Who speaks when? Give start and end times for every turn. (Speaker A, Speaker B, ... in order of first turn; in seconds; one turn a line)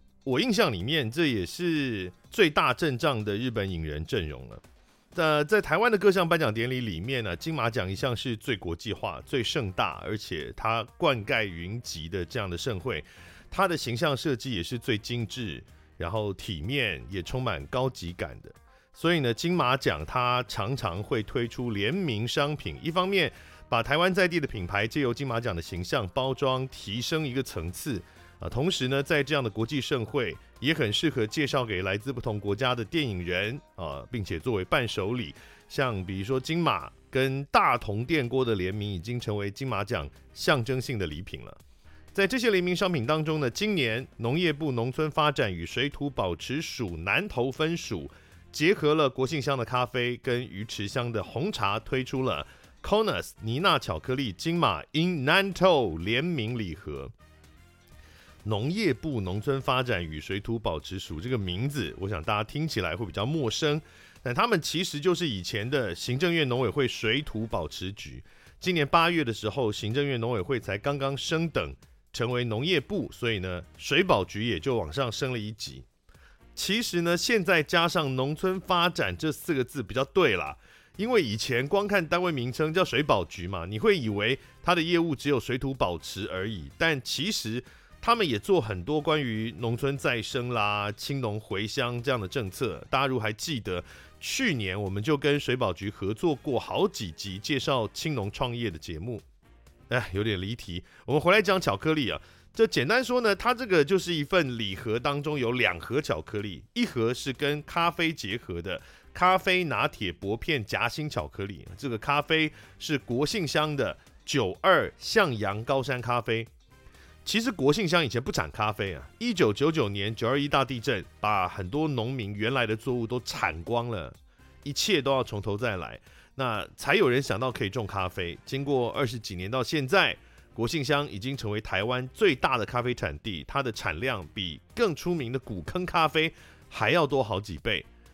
Speaker A: 0.2-41.6
Speaker A: 42.1-57.1
Speaker A: 58.4-75.8
Speaker A: 76.5-99.2
Speaker A: 99.9-116.5
Speaker A: 117.2-137.9